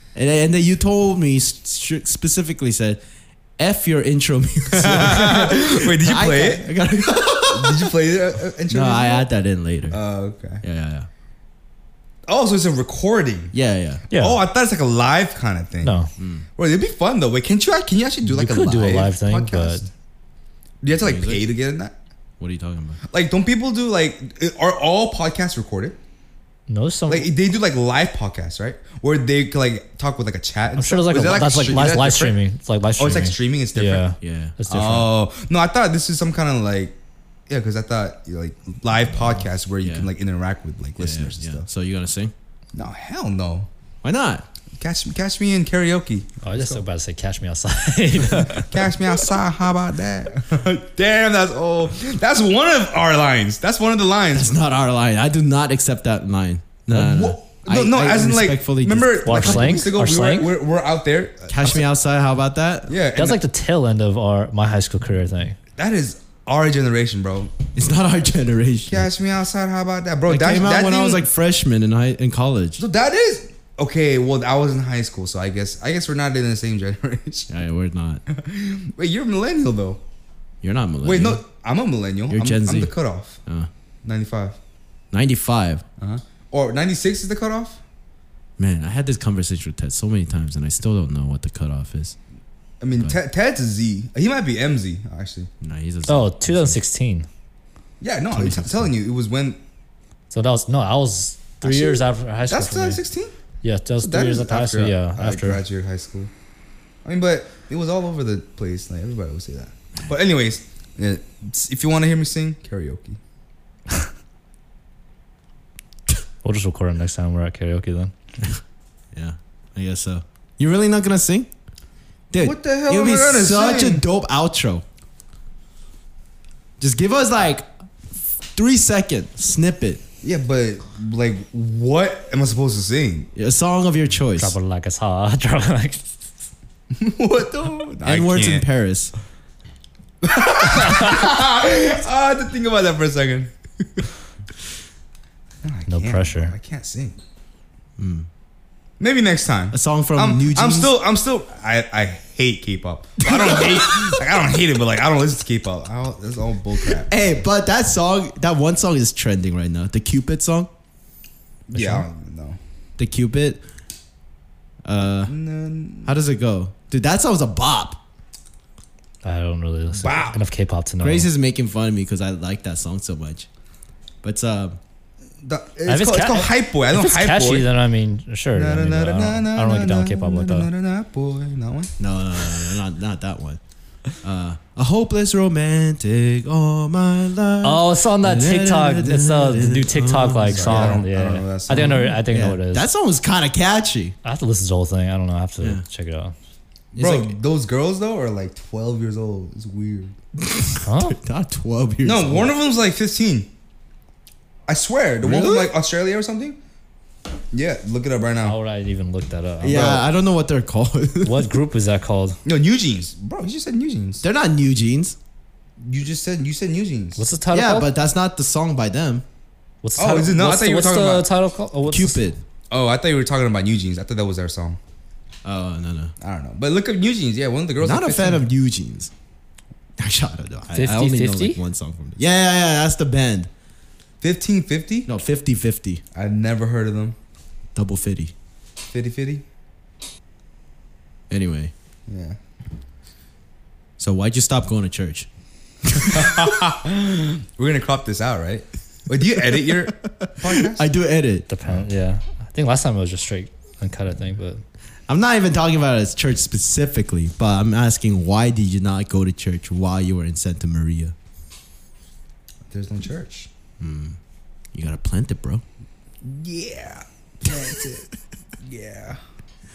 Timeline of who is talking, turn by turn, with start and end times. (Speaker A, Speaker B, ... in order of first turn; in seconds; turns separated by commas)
Speaker A: 0.1-3.0, Speaker A: 3.6-7.9, Speaker B: 4.7-6.7, Speaker B: 7.5-9.3, Speaker A: 8.7-10.0, Speaker B: 9.9-10.6, Speaker A: 10.6-11.1, Speaker B: 12.3-13.5, Speaker A: 13.5-14.1, Speaker C: 14.1-14.4, Speaker B: 14.1-16.0, Speaker C: 15.8-16.1, Speaker A: 16.2-16.4, Speaker B: 16.6-19.9, Speaker C: 18.2-19.9, Speaker B: 20.8-22.0, Speaker A: 21.0-21.4, Speaker A: 22.4-23.0, Speaker B: 23.1-26.0, Speaker C: 26.7-27.3, Speaker B: 27.1-32.4, Speaker C: 30.8-35.1, Speaker B: 33.0-34.1, Speaker A: 34.2-34.6, Speaker B: 34.7-37.0, Speaker B: 37.5-41.7, Speaker A: 39.8-40.1, Speaker A: 41.0-42.3, Speaker B: 42.7-43.7, Speaker A: 44.0-44.5, Speaker B: 44.8-46.8, Speaker C: 46.4-48.9, Speaker B: 48.5-54.5, Speaker A: 54.3-59.9, Speaker B: 56.9-61.8, Speaker C: 59.2-60.5, Speaker A: 61.5-63.0, Speaker B: 62.9-63.4, Speaker C: 63.2-65.6, Speaker B: 65.8-67.5, Speaker A: 67.8-69.1, Speaker B: 68.9-71.2, Speaker A: 70.3-72.8, Speaker B: 72.8-77.5, Speaker A: 77.5-78.2, Speaker B: 78.3-80.0, Speaker A: 80.6-81.4, Speaker B: 81.0-83.4, Speaker A: 82.3-82.9, Speaker B: 84.0-84.6, Speaker A: 85.1-85.8, Speaker B: 86.0-87.8, Speaker A: 88.6-92.2, Speaker B: 92.8-95.5, Speaker A: 95.6-96.8, Speaker C: 96.1-97.3, Speaker B: 98.0-99.6, Speaker A: 98.3-98.9, Speaker C: 100.3-103.0, Speaker B: 101.6-103.3, Speaker C: 103.6-105.6, Speaker B: 104.0-106.3, Speaker B: 107.0-113.2, Speaker C: 116.4-118.1, Speaker A: 119.1-121.5, Speaker A: 122.3-124.8, Speaker B: 122.4-124.0, Speaker A: 126.8-130.0, Speaker B: 130.2-133.3, Speaker A: 133.3-134.6, Speaker C: 134.4-136.1, Speaker B: 136.9-138.7, Speaker A: 138.0-139.1, Speaker B: 140.2-143.5, Speaker B: 145.6-147.2, Speaker C: 145.9-146.5, Speaker A: 148.0-148.3, Speaker B: 149.0-157.2, Speaker A: 149.7-150.9, Speaker A: 153.2-154.2, Speaker A: 156.8-160.7, Speaker B: 161.7-162.6, Speaker A: 161.7-162.1, Speaker A: 163.0-163.6, Speaker A: 164.9-165.3, Speaker B: 165.3-166.2, Speaker A: 166.1-168.0, Speaker C: 169.2-171.3, Speaker B: 170.0-170.4, Speaker A: 171.0-173.5, Speaker A: 174.2-174.8, Speaker B: 175.4-177.7, Speaker C: 175.9-180.7, Speaker B: 178.6-181.9, Speaker A: 182.0-183.6, Speaker A: 184.2-191.0, Speaker C: 187.6-192.9, Speaker B: 190.5-192.1, Speaker A: 191.7-194.2, Speaker C: 194.2-196.3, Speaker B: 196.9-200.2, Speaker A: 197.0-197.4, Speaker A: 200.4-202.6, Speaker C: 200.8-201.2, Speaker B: 202.0-203.5, Speaker B: 204.7-206.6, Speaker A: 205.2-205.8, Speaker B: 207.5-208.6, Speaker C: 208.4-210.1, Speaker A: 209.6-211.5, Speaker C: 211.2-212.4, Speaker B: 212.4-214.2, Speaker A: 214.2-215.2, Speaker B: 215.8-217.3, Speaker C: 217.2-217.9, Speaker A: 217.5-219.2, Speaker C: 219.8-222.3, Speaker B: 220.0-221.3, Speaker A: 221.9-222.4, Speaker B: 222.7-224.8, Speaker A: 225.4-226.1, Speaker B: 226.2-228.5, Speaker A: 227.8-229.1, Speaker A: 230.0-233.5, Speaker C: 230.7-231.6, Speaker B: 234.2-235.1, Speaker A: 235.1-236.0, Speaker B: 236.1-237.2, Speaker A: 237.8-238.3, Speaker B: 238.9-239.4, Speaker A: 241.3-241.7, Speaker B: 242.1-242.4, Speaker A: 244.0-245.3, Speaker A: 245.8-246.7, Speaker B: 246.1-250.9, Speaker A: 249.6-251.5, Speaker C: 251.5-254.6, Speaker A: 255.1-261.1, Speaker B: 262.7-263.5, Speaker A: 263.8-264.2, Speaker A: 264.7-265.6, Speaker B: 266.2-268.1, Speaker B: 268.6-269.2